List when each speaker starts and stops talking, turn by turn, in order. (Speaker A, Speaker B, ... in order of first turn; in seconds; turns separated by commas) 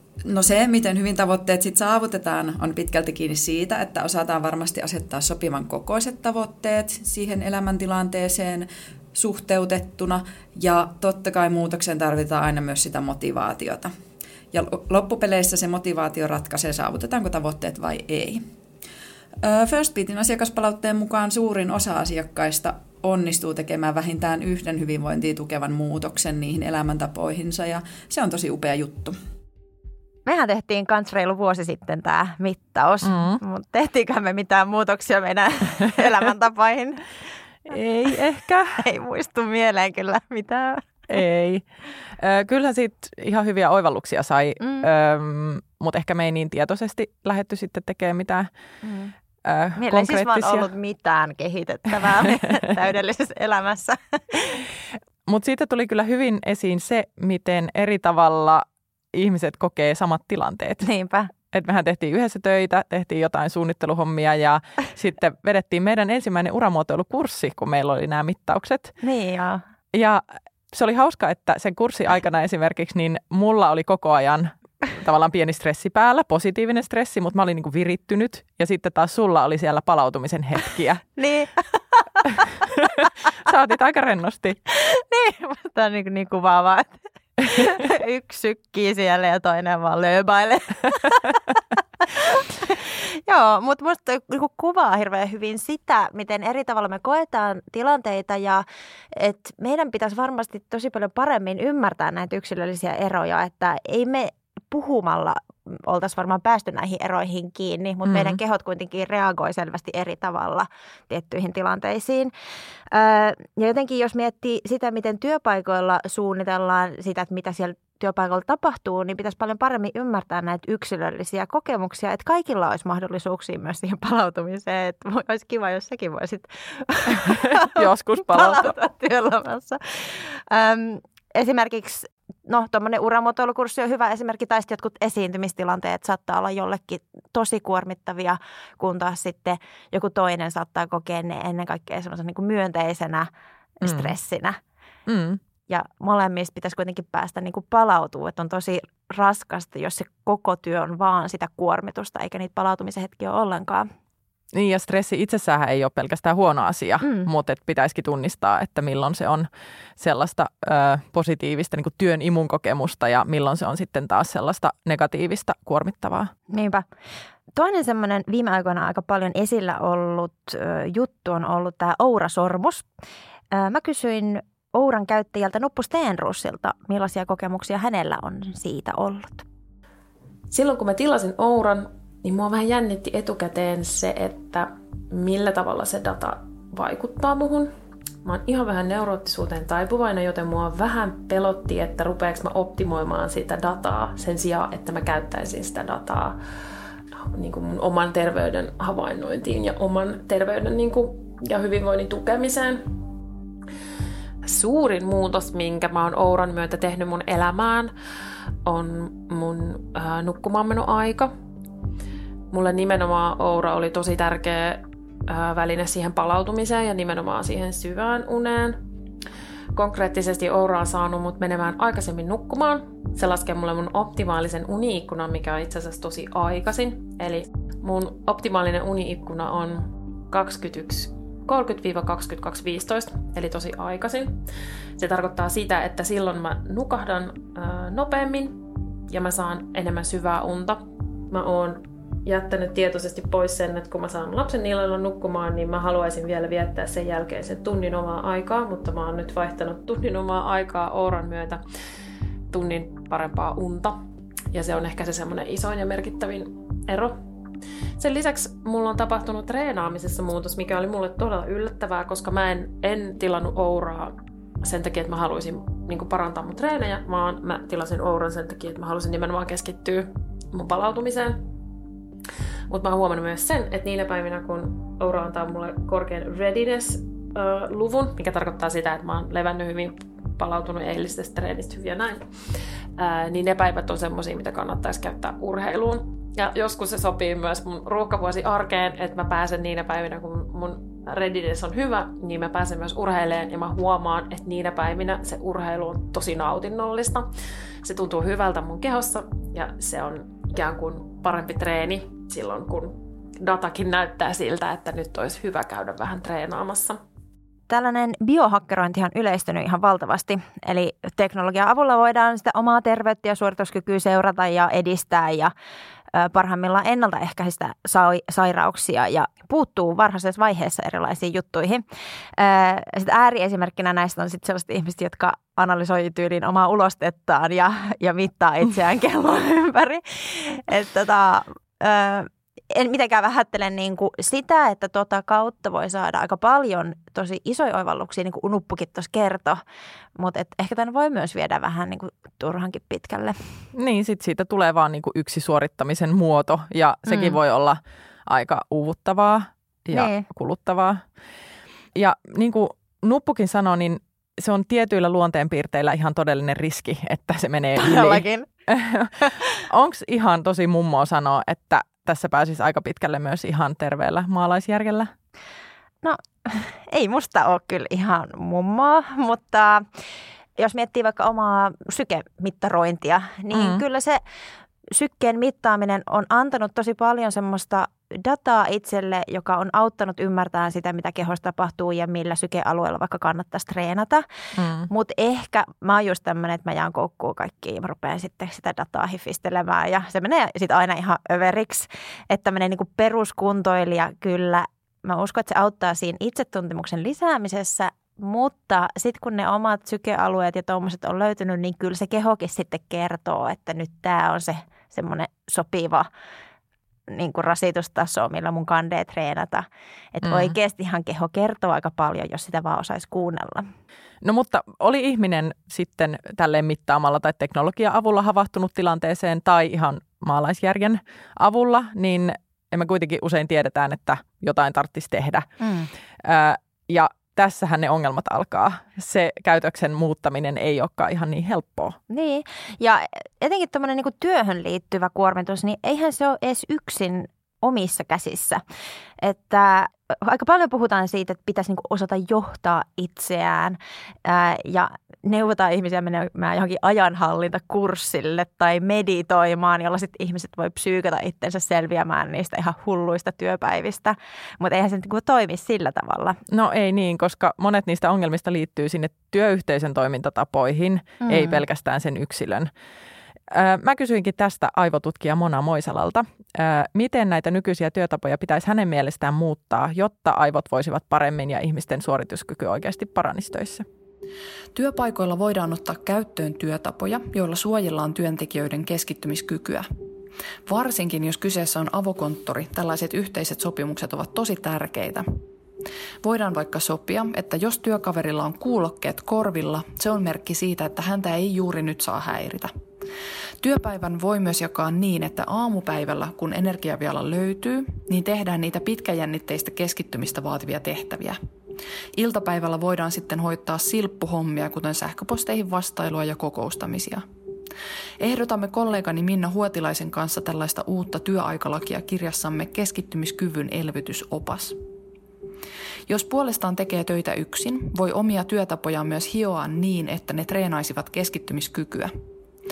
Speaker A: 0.3-13.9, Speaker A: 14.5-18.4, Speaker A: 19.4-29.2, Speaker B: 30.3-37.0, Speaker C: 33.0-33.4, Speaker C: 37.7-38.8, Speaker B: 38.8-40.9, Speaker C: 41.1-41.7, Speaker C: 42.2-48.5, Speaker B: 44.6-44.9, Speaker B: 48.8-49.1, Speaker C: 49.5-50.7, Speaker B: 49.8-54.6, Speaker C: 55.3-60.9, Speaker B: 60.8-61.3, Speaker C: 61.5-69.0, Speaker B: 69.0-69.6, Speaker C: 69.9-81.0, Speaker B: 81.2-82.4, Speaker C: 82.4-84.6, Speaker B: 84.7-112.3, Speaker C: 108.1-108.4, Speaker B: 112.9-143.3, Speaker C: 127.1-128.8, Speaker B: 143.8-144.6, Speaker C: 143.8-144.2, Speaker C: 145.1-145.4, Speaker B: 145.7-153.9, Speaker C: 154.5-159.5, Speaker C: 160.0-166.3, Speaker B: 166.5-166.9, Speaker B: 167.5-172.9, Speaker B: 173.5-179.5, Speaker D: 180.5-187.7, Speaker D: 188.2-196.4, Speaker D: 197.2-202.8, Speaker D: 204.4-207.9, Speaker D: 208.7-211.3, Speaker D: 212.5-218.8, Speaker D: 219.8-234.4, Speaker D: 235.0-251.6, Speaker D: 252.5-254.0, Speaker D: 254.5-257.2, Speaker D: 258.0-271.4, Speaker D: 272.7-282.3, Speaker D: 283.0-297.3, Speaker D: 297.8-307.0, Speaker B: 307.7-315.5, Speaker B: 316.1-321.9, Speaker B: 322.4-339.6, Speaker B: 340.2-343.5, Speaker C: 343.7-351.0, Speaker B: 347.1-347.4, Speaker B: 349.9-350.3, Speaker C: 351.9-365.1, Speaker B: 357.8-358.5, Speaker B: 366.0-369.9, Speaker B: 370.6-374.2, Speaker C: 373.5-373.8, Speaker B: 374.9-384.2, Speaker C: 384.6-384.9, Speaker B: 384.9-406.1, Speaker B: 407.1-413.7, Speaker C: 410.2-410.5, Speaker C: 414.2-425.5, Speaker B: 425.6-425.9, Speaker C: 426.2-432.0, Speaker B: 432.1-438.6, Speaker B: 439.2-456.4, Speaker C: 456.5-462.7, Speaker B: 461.3-461.6, Speaker C: 463.5-473.9, Speaker E: 474.8-479.9, Speaker E: 480.7-485.4, Speaker E: 486.2-492.7, Speaker E: 493.6-501.4, Speaker E: 502.1-507.2, Speaker E: 508.2-514.8, Speaker E: 516.1-522.1